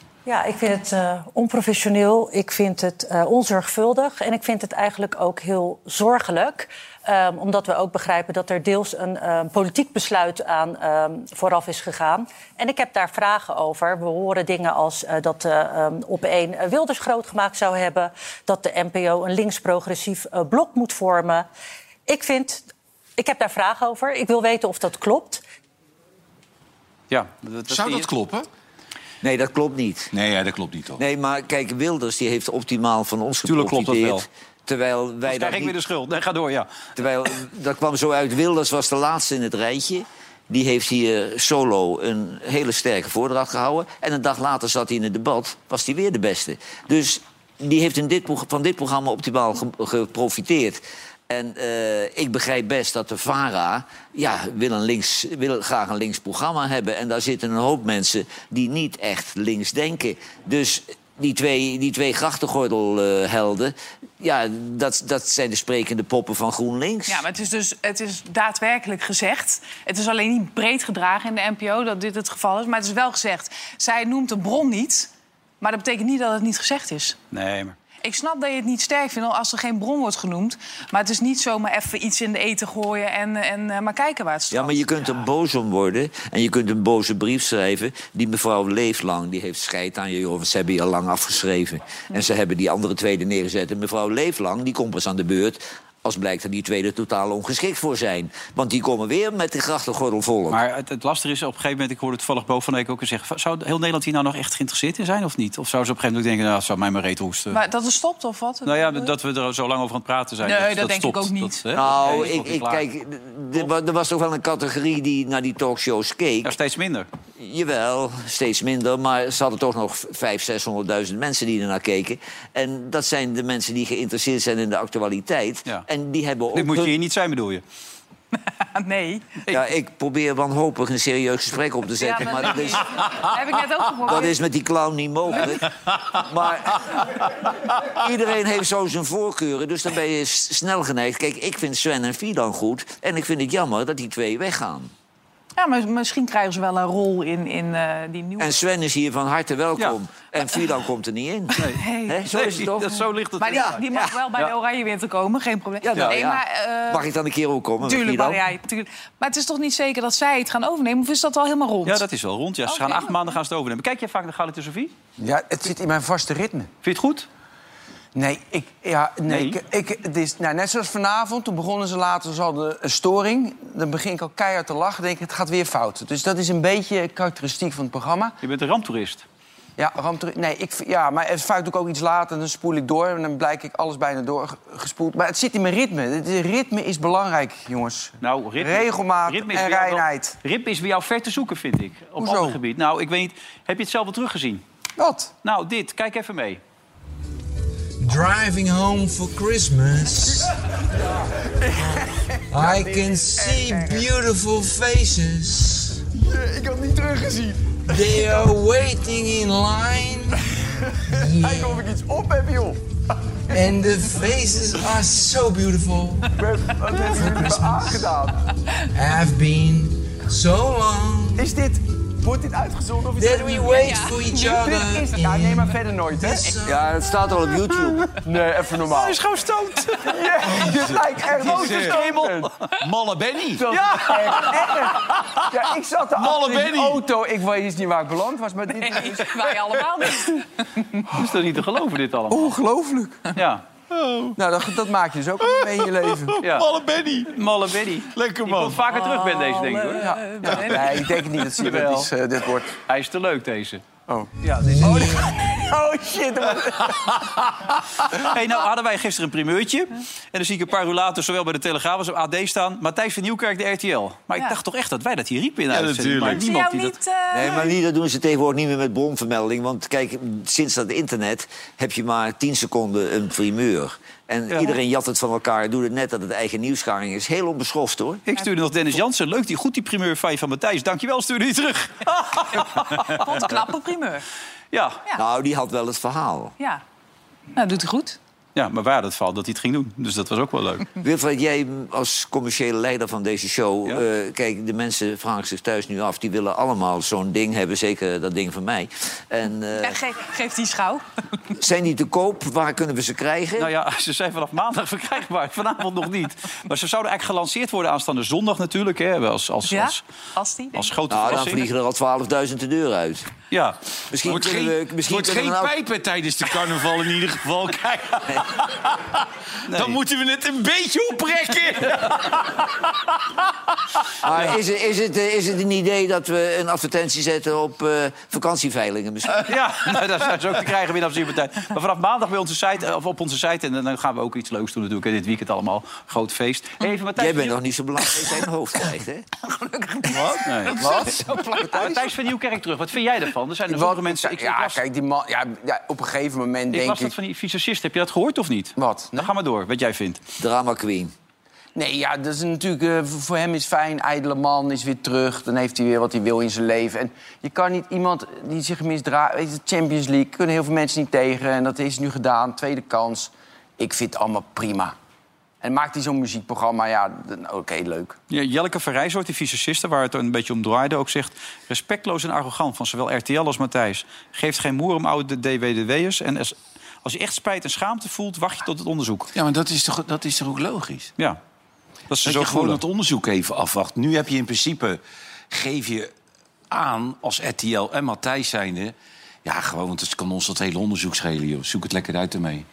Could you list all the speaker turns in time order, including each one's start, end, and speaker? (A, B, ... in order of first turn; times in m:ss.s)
0:00.3-0:21.5 A
0:22.1-0:22.7 A
0:23.2-0:25.4 A
0:27.1-0:28.1 B
0:27.7-0:28.5 C
0:29.2-0:30.1 D
0:30.1-0:31.0 C
0:31.0-0:35.8 D
0:33.4-0:34.2 B
0:35.3-0:36.7 B
0:37.0-1:07.2 D
1:07.1-1:17.2 E
1:17.3-1:17.8 B
1:18.0-1:24.8 E
1:24.5-1:40.6 D
1:40.5-1:47.6 B
1:47.5-1:49.1 E
1:48.7-1:52.8 B
1:50.4-1:51.8 E
1:51.7-1:56.5 D
1:56.4-1:57.1 B
1:57.4-2:07.0 D
2:06.5-2:07.6 B
2:08.6-2:09.4 E
2:09.5-2:12.9 D
2:12.0-2:14.4 E
2:14.0-2:17.0 D
2:17.9-2:24.9 D
2:25.6-2:28.6 E
2:28.4-2:34.1 D
2:31.6-2:33.8 B
2:31.6-2:32.2 E
2:33.4-2:37.1 E
2:35.8-2:38.4 D
2:37.8-2:42.0 E
2:41.8-2:44.9 B
2:42.7-2:43.4 E
2:45.2-2:46.7 F
2:46.8-2:47.3 B
2:48.2-2:58.4 F
2:49.3-2:49.6 B
2:58.4-2:59.2 B
2:59.8-3:10.4 F
3:08.2-3:14.6 B
3:12.2-3:12.6 F
3:15.0-3:15.3 F
3:15.4-3:16.6 B
3:18.0-3:20.3 G
3:20.1-3:20.5 F
3:21.6-3:24.2 F
3:22.5-3:26.0 G
3:26.2-3:28.6 F
3:27.9-3:30.4 G
3:31.0-3:32.8 F
3:31.2-3:31.8 G
3:33.5-3:34.2 F
3:33.5-3:36.2 G
3:36.3-3:38.4 F
3:37.2-3:38.1 G
3:39.0-3:41.4 G
3:41.3-3:46.7 F
3:43.2-3:46.8 G
3:43.7-3:44.6 E
3:46.6-3:48.0 D
3:48.2-3:49.2 F
3:48.9-3:50.3 B
3:50.0-3:52.5 F
3:50.7-3:52.0 C
3:51.4-3:52.5 B
3:52.8-3:53.8 C
3:53.6-4:00.2 F
3:53.7-3:54.4 B
3:55.2-3:55.4 C
3:56.2-3:57.0 C
3:58.7-4:01.0 E
4:01.1-4:02.6 B
4:02.3-4:03.3 F
4:03.4-4:03.6 B
4:03.9-4:04.4 C
4:04.4-4:06.4 F
4:05.4-4:07.3 C
4:06.4-4:06.7 B
4:07.3-4:10.1 B
4:08.2-4:08.9 C
4:08.9-4:10.9 E
4:10.0-4:12.7 F
4:11.6-4:12.1 B
4:12.9-4:13.8 B
4:14.1-4:17.2 F
4:14.4-4:15.1 B
4:18.1-4:26.9 B
4:25.7-4:26.5 C
4:26.3-4:27.8 E
4:27.3-4:38.2 D
4:38.3-4:43.4 B
4:43.1-4:44.3 E
4:44.7-4:45.0 B
4:45.2-4:46.5 D
4:47.6-4:48.2 E
4:48.6-4:50.9 B
4:51.0-5:00.0 D
4:59.8-5:01.0 E
5:01.6-5:03.7 D
5:03.6-5:10.0 B
5:09.7-5:10.9 E
5:10.8-5:11.6 B
5:11.1-5:13.3 D
5:13.5-5:13.8 B
5:14.1-5:15.7 D
5:14.2-5:22.9 C
5:19.7-5:20.0 B
5:24.2-5:29.5 D
5:29.4-5:37.6 B
5:37.2-5:39.3 D
5:39.4-5:41.6 E
5:40.4-5:44.8 B
5:40.7-5:42.1 F
5:43.7-5:47.2 F
5:46.7-5:50.2 B
5:48.8-5:49.3 F
5:50.4-5:51.1 D
5:51.8-6:05.0 F
6:05.6-6:08.2 F
6:08.3-6:19.3 B
6:19.4-6:21.1 C
6:22.1-6:22.8 B
6:22.2-6:26.1 C
6:26.7-6:28.9 C
6:29.4-6:32.7 C